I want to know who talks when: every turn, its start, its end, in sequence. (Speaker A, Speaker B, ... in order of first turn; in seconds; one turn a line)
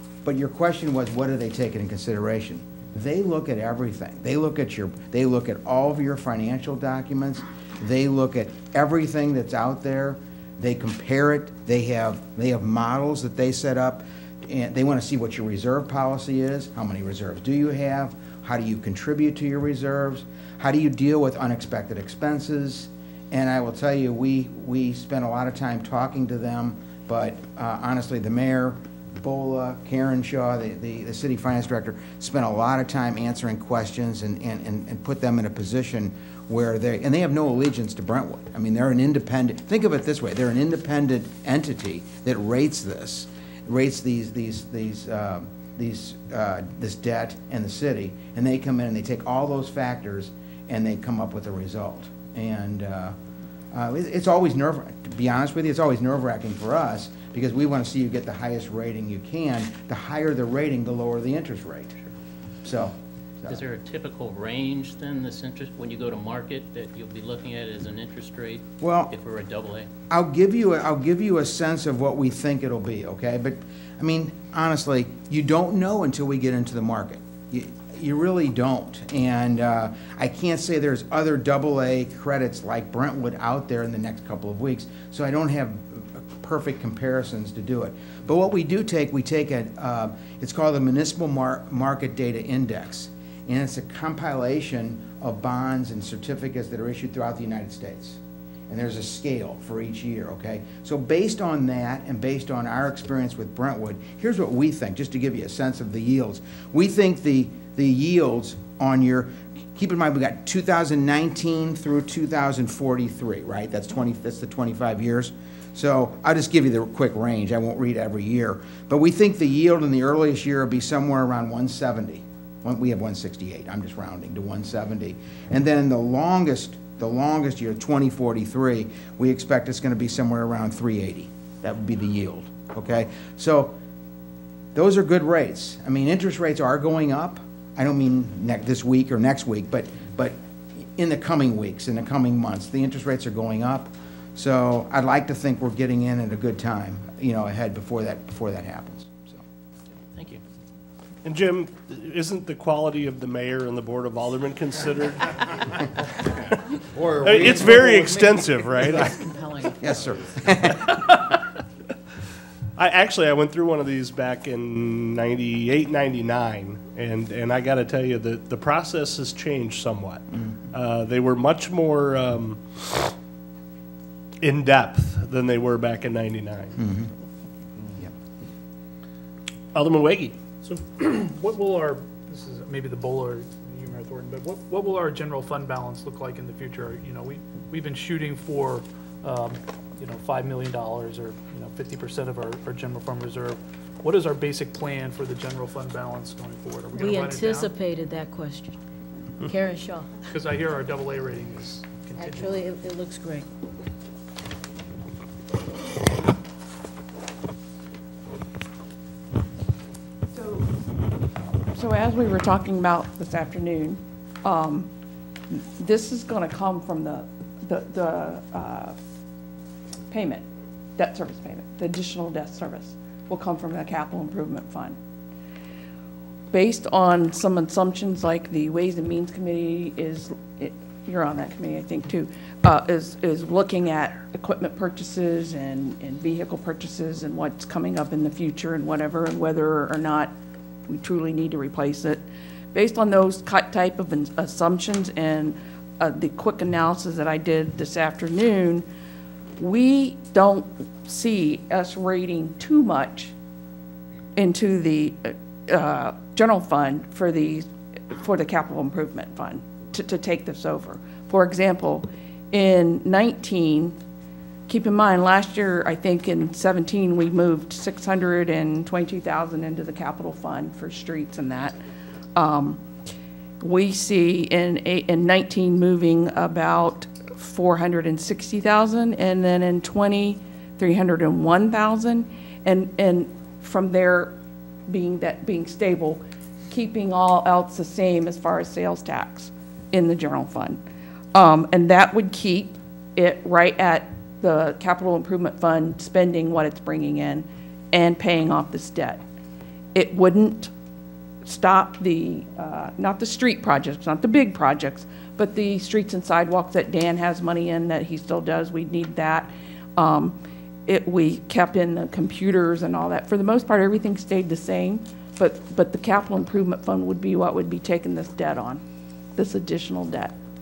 Speaker A: 0.2-53.2
Speaker A: 53.7-62.0
Speaker A: 62.6-63.6
Speaker B: 63.5-69.9
Speaker A: 68.8-69.1
Speaker A: 70.1-98.2
Speaker A: 98.7-133.8
Speaker A: 134.8-149.4
Speaker B: 150.1-150.4
Speaker C: 151.2-156.6
Speaker D: 156.9-159.2
Speaker C: 157.2-159.2
Speaker B: 159.3-160.3
Speaker A: 159.8-160.9
Speaker C: 160.7-161.2
Speaker C: 162.8-173.1
Speaker C: 174.4-176.8
Speaker A: 176.8-177.1
Speaker C: 179.8-180.4
Speaker E: 180.7-197.7
Speaker F: 196.9-198.8
Speaker F: 199.4-200.2
Speaker E: 200.3-202.6
Speaker F: 202.2-203.5
Speaker G: 211.7-214.9
Speaker G: 215.5-218.9
Speaker G: 220.1-220.4
Speaker G: 221.0-225.0
Speaker G: 226.5-240.3
Speaker G: 240.9-248.9
Speaker G: 249.6-253.3
Speaker G: 254.4-264.0
Speaker G: 264.7-271.8
Speaker G: 272.4-272.8
Speaker G: 273.6-284.4
Speaker G: 284.9-290.8
Speaker G: 291.3-299.2
Speaker G: 299.9-300.7
Speaker G: 301.4-318.8
Speaker G: 319.4-320.4